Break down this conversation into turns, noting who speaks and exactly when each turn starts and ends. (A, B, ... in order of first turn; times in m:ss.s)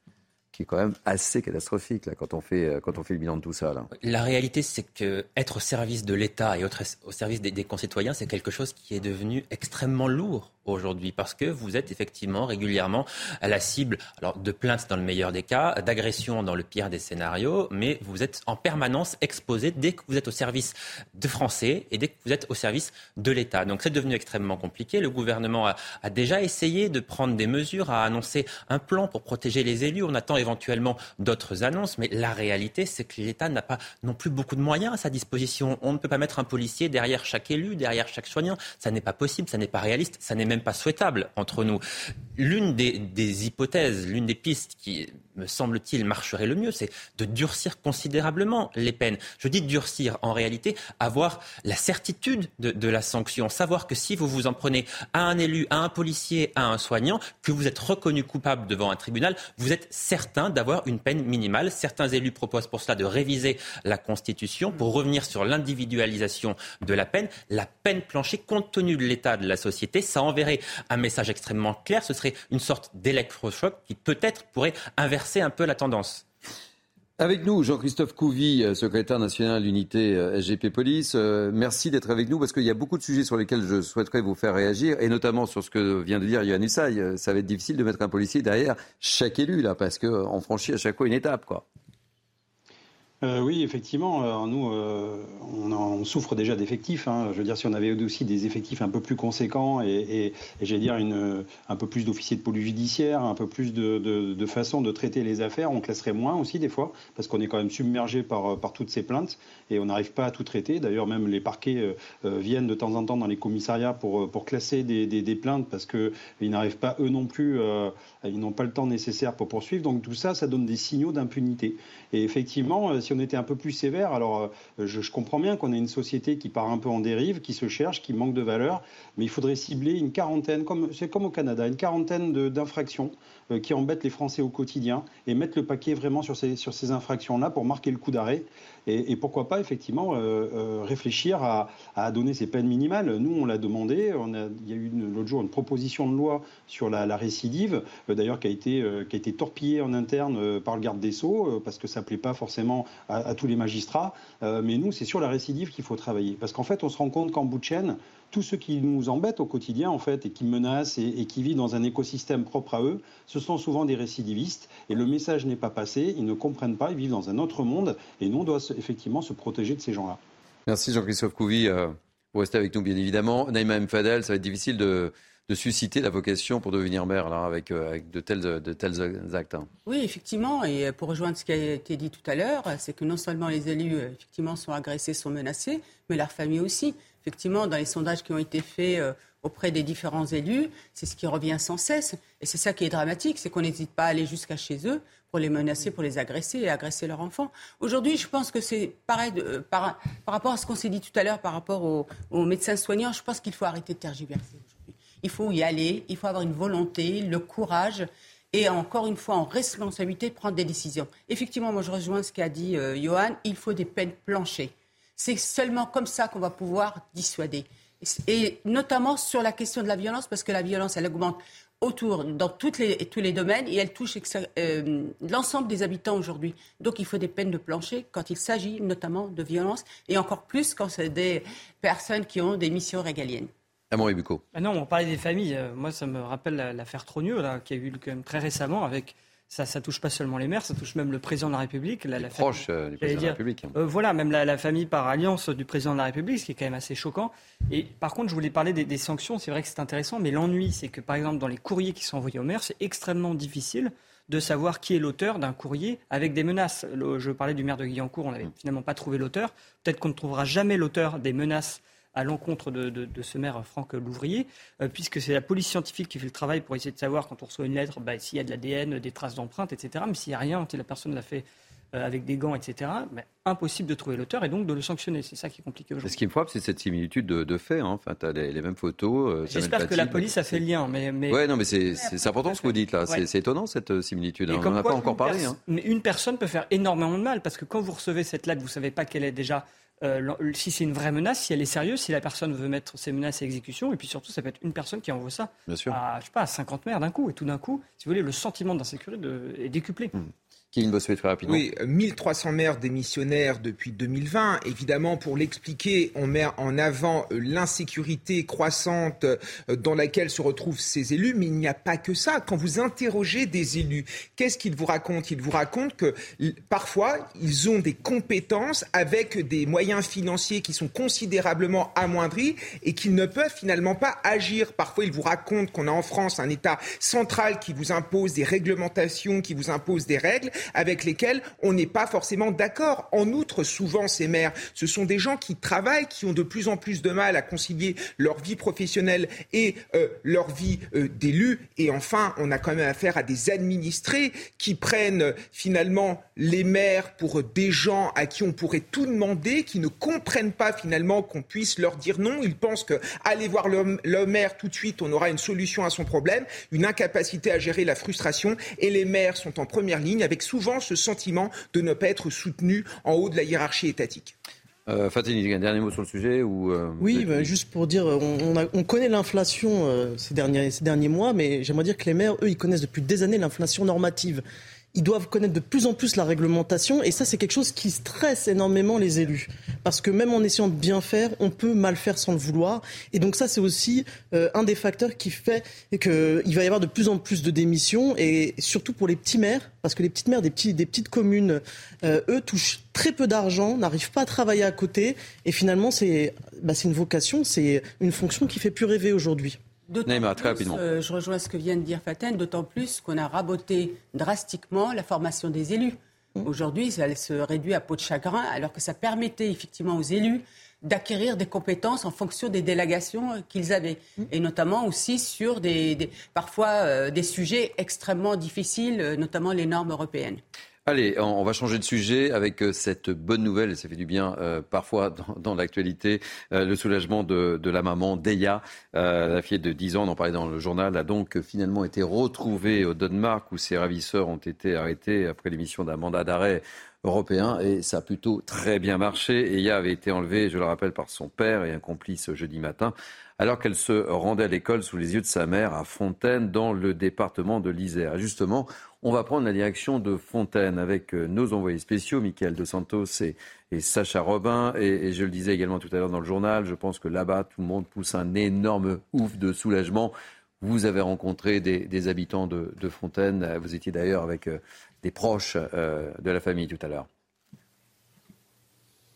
0:00.5-0:03.9 A
0:04.0-0:41.8 B
0:42.4-1:16.2 B
1:17.2-1:31.6 A
1:33.2-2:50.2 C
2:50.7-2:59.7 A
2:59.8-3:53.5 D
3:53.9-3:54.4 A
3:54.5-4:36.2 E
4:02.2-4:03.7 A
4:36.0-4:40.6 A
4:39.5-4:41.4 E
4:41.3-4:45.6 A
4:42.0-4:43.2 E
4:44.5-5:00.1 E
4:55.7-4:56.0 A
5:00.1-5:01.6 A
5:01.4-6:04.3 F
6:04.9-6:07.5 A
6:07.0-6:14.4 G
6:14.9-6:39.6 G
6:39.9-7:00.4 D
6:40.0-6:40.8 A
7:00.9-7:47.1 A